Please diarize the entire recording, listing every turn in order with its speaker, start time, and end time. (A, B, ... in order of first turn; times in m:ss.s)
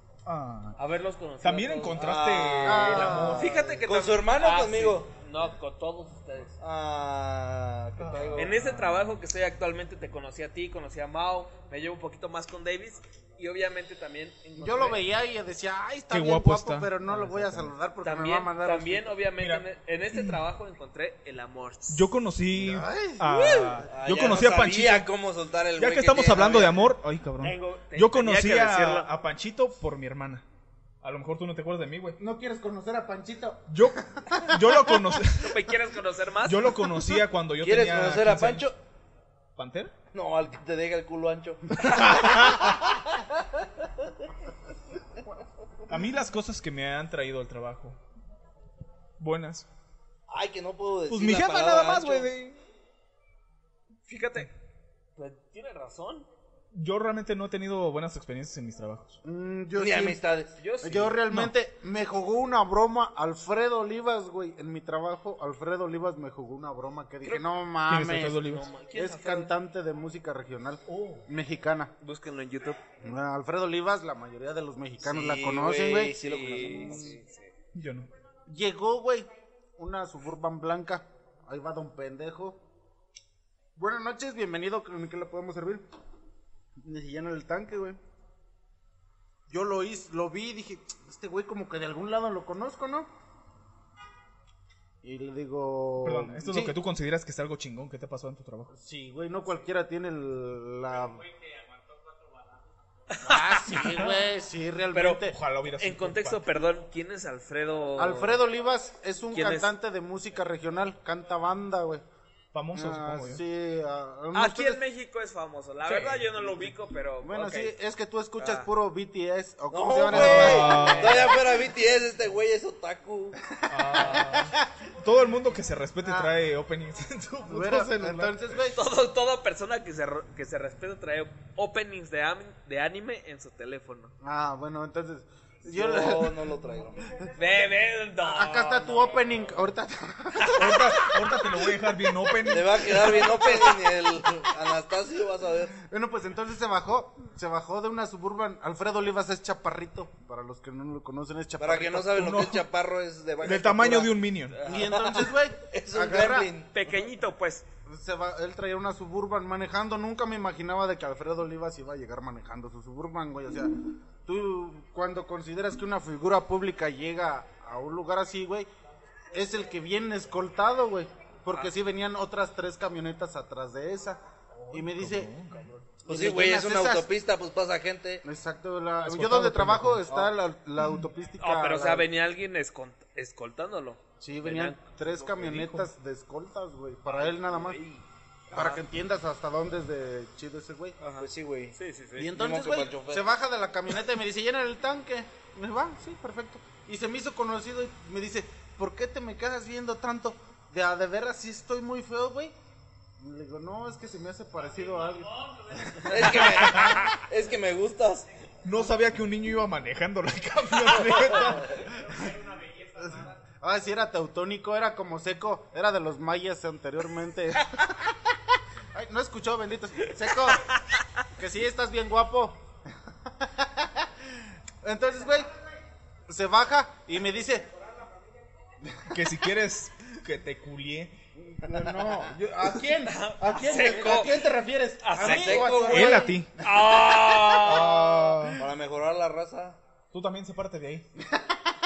0:00.2-0:00.8 A
0:00.8-0:02.1 B
0:01.4-0:03.6 A
0:01.9-0:05.1 C
0:02.6-0:03.5 D
0:03.1-0:06.5 B
0:06.6-0:08.5 C
0:08.0-0:09.0 A
0:08.4-0:15.0 B
0:14.6-0:19.1 D
0:16.1-0:17.7 A
0:18.0-0:22.1 B
0:19.4-0:20.4 A
0:21.9-0:25.1 A
0:22.5-0:23.8 D
0:23.8-0:26.9 C
0:25.8-0:30.4 A
0:27.4-0:29.1 B
0:31.0-0:32.2 A
0:32.2-0:35.1 D
0:33.7-0:35.6 A
0:35.4-0:36.6 B
0:36.4-0:38.7 A
0:37.6-0:38.8 C
0:39.6-0:39.9 A
0:40.1-0:44.1 C
0:41.8-0:42.7 A
0:45.9-0:48.0 A
0:49.2-0:49.6 A
0:50.3-0:52.3 C
0:51.1-0:52.6 A
0:54.1-0:54.5 B
0:55.2-0:56.3 B
0:56.7-0:59.2 A
0:59.2-1:00.2 D
0:59.7-1:00.6 C
1:00.6-1:01.1 B
1:00.8-1:11.9 D
1:01.3-1:01.5 A
1:07.8-1:08.7 A
1:08.4-1:09.5 B
1:10.9-1:11.3 A
1:12.0-1:12.8 B
1:13.0-1:16.1 D
1:15.0-1:17.2 C
1:16.2-1:17.5 B
1:17.7-1:18.1 A
1:18.5-1:22.6 D
1:23.8-1:25.8 D
1:26.8-1:28.0 D
1:29.5-1:33.1 D
1:35.0-1:36.7 D
1:36.0-1:38.7 A
1:38.7-1:41.2 D
1:43.1-1:43.8 B
1:43.2-1:45.4 D
1:44.9-1:45.2 B
1:45.2-1:46.6 A
1:45.8-1:48.4 B
1:48.0-1:52.0 D
1:49.3-1:49.7 B
1:52.5-1:53.4 A
1:52.7-1:54.8 D
1:54.3-1:57.7 B
1:55.8-1:56.3 A
1:57.2-2:01.2 D
1:58.4-1:58.7 B
1:59.7-2:03.4 C
2:00.1-2:01.3 A
2:00.5-2:01.1 B
2:03.7-2:08.4 A
2:03.7-2:04.6 D
2:06.0-2:06.3 D
2:07.5-2:08.8 D
2:08.7-2:14.1 B
2:14.2-2:16.5 D
2:15.6-2:17.1 C
2:17.4-2:19.4 B
2:18.2-2:21.0 D
2:20.5-2:23.4 A
2:22.5-2:25.7 C
2:25.8-2:32.3 D
2:31.6-2:36.7 C
2:32.1-2:32.6 A
2:33.4-2:34.6 A
2:34.6-2:36.5 D
2:36.7-2:37.6 B
2:37.9-2:48.7 D
2:49.3-2:55.3 D
2:54.7-2:55.7 A
2:56.0-2:57.1 D
2:56.0-2:58.2 C
2:58.2-3:02.1 D
2:59.0-3:00.1 A
3:01.4-3:04.8 B
3:04.2-3:07.8 D
3:05.1-3:05.9 A
3:07.1-3:08.8 B
3:08.5-3:11.0 D
3:11.2-3:13.3 C
3:11.8-3:12.3 B
3:12.2-3:22.6 D
3:23.2-3:26.7 D
3:26.1-3:28.3 C
3:28.6-3:31.8 A
3:33.0-3:38.1 D
3:38.9-3:40.7 D
3:41.4-3:42.6 D
3:43.4-3:44.1 D
3:44.8-3:45.5 D
3:46.3-3:47.7 D
3:49.1-3:51.1 A
3:51.4-3:56.4 D
3:53.0-3:54.4 B
3:55.0-3:58.1 B
3:55.2-3:56.3 C
3:55.9-3:56.6 A
3:57.6-3:58.6 A
3:58.6-3:59.8 C
4:00.1-4:01.0 A